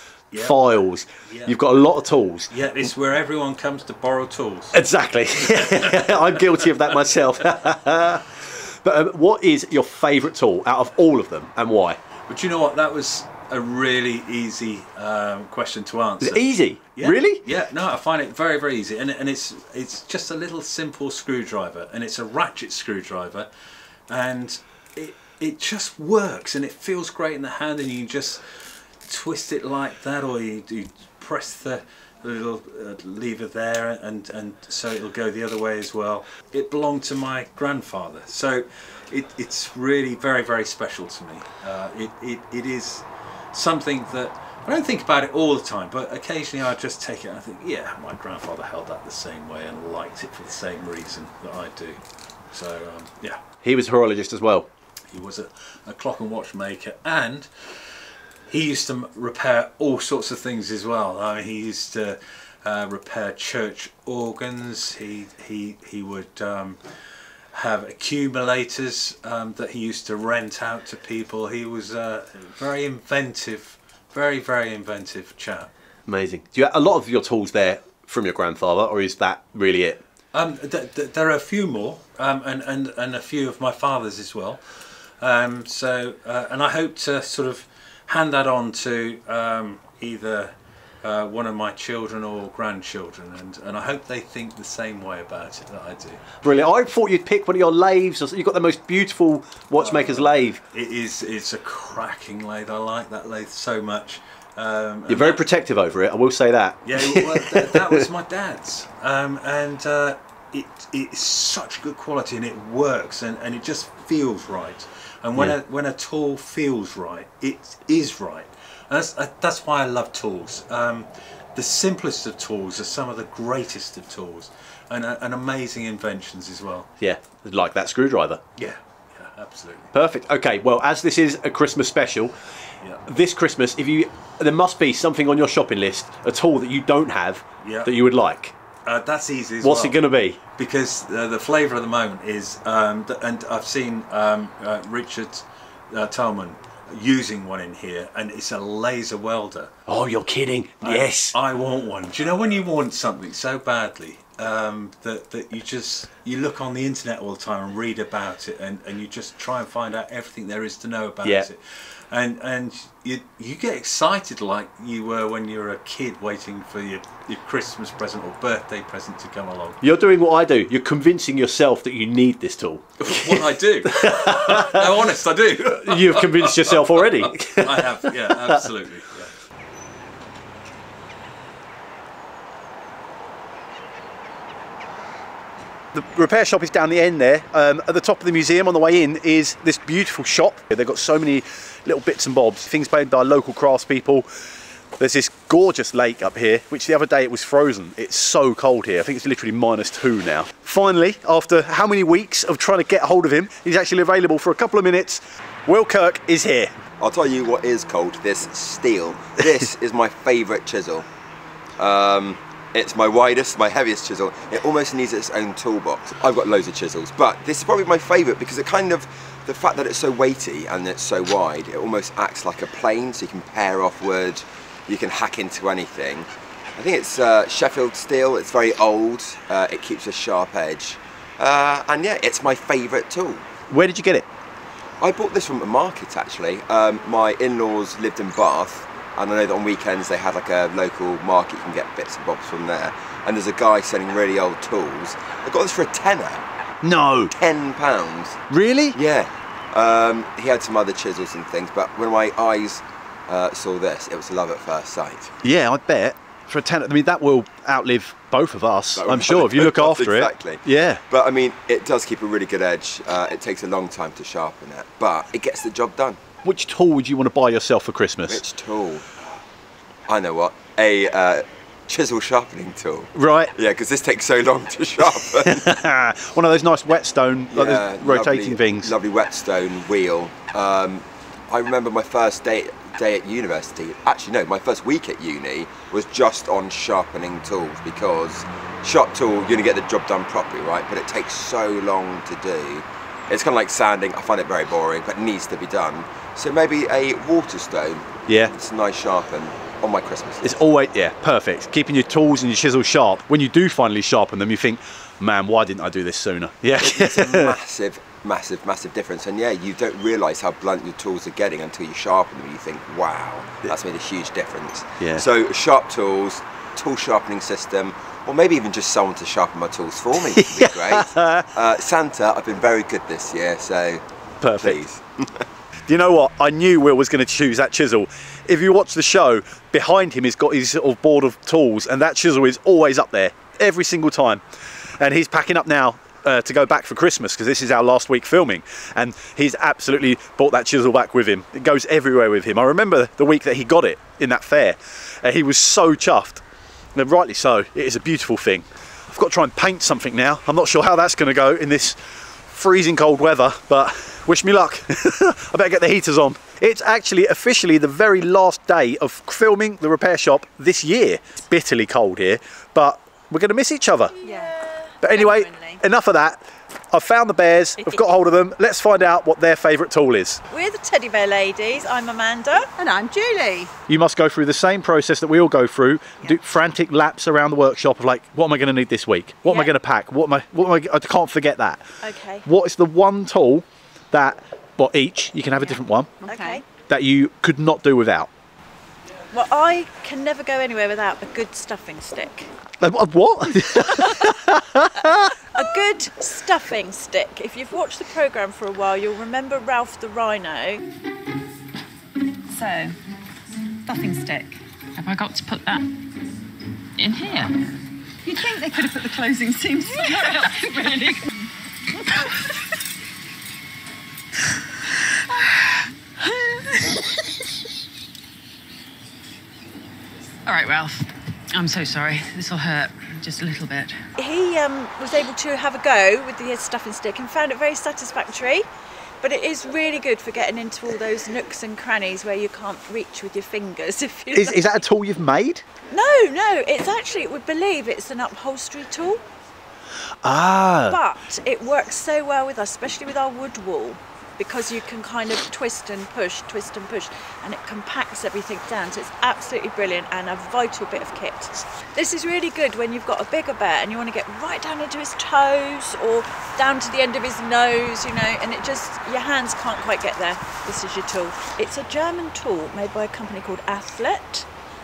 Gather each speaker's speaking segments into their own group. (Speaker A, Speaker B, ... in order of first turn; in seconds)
Speaker A: 0.3-1.6, 2.5-4.8, 5.4-7.7, 12.3-23.5, 24.1-28.4, 29.1-52.0, 52.5-53.4, 55.1-57.5, 58.5-66.8, 67.5-75.7, 80.3-84.6, 85.2-96.4, 99.8-105.5, 106.8-126.9, 128.6-129.9, 137.6-137.9, 138.8-140.0, 140.6-149.7, 150.8-161.6, 162.1-169.8, 173.0-179.3
Speaker B: 0.4-2.5, 4.7-12.0, 16.2-17.4, 53.6-54.7, 76.1-80.0, 96.4-100.6, 105.1-108.0, 127.0-128.4, 129.9-132.3, 133.1-138.5, 139.6-140.4, 149.9-151.4, 161.2-161.5, 169.8-174.9, 175.7-178.7, 185.9-194.3, 195.0-206.7, 233.7-234.3, 246.8-247.3, 248.5-249.0, 255.4-261.0, 266.4-268.4, 273.1-273.5, 275.4-278.9, 298.3-298.5, 300.4-307.6, 315.0-315.2, 320.4-321.5, 324.4-324.8, 325.9-334.4, 335.0-346.4, 346.9-364.2, 365.0-370.4, 373.9-381.8, 382.4-386.1, 386.9-388.3, 392.8-395.4, 434.3-435.7, 440.2-441.0
Speaker C: 207.0-211.1, 211.8-233.4, 235.0-246.4, 247.4-248.4, 248.9-255.3, 259.0-266.2, 268.3-269.1, 270.1-275.7, 277.5-300.5, 306.8-324.0, 324.6-325.4
Speaker D: 364.2-365.1, 370.5-372.7, 379.4-379.7, 382.0-382.5, 385.7-386.6, 389.3-392.5, 393.8-394.4, 395.5-400.8, 403.9-404.4, 409.8-411.2, 424.2-428.7, 429.2-434.8, 435.9-439.2, 440.9-464.5
Speaker E: 364.2-365.8, 372.8-373.7, 386.2-386.6
Speaker F: 405.0-405.8, 407.0-407.6, 408.3-411.1, 420.5-421.0, 421.6-423.9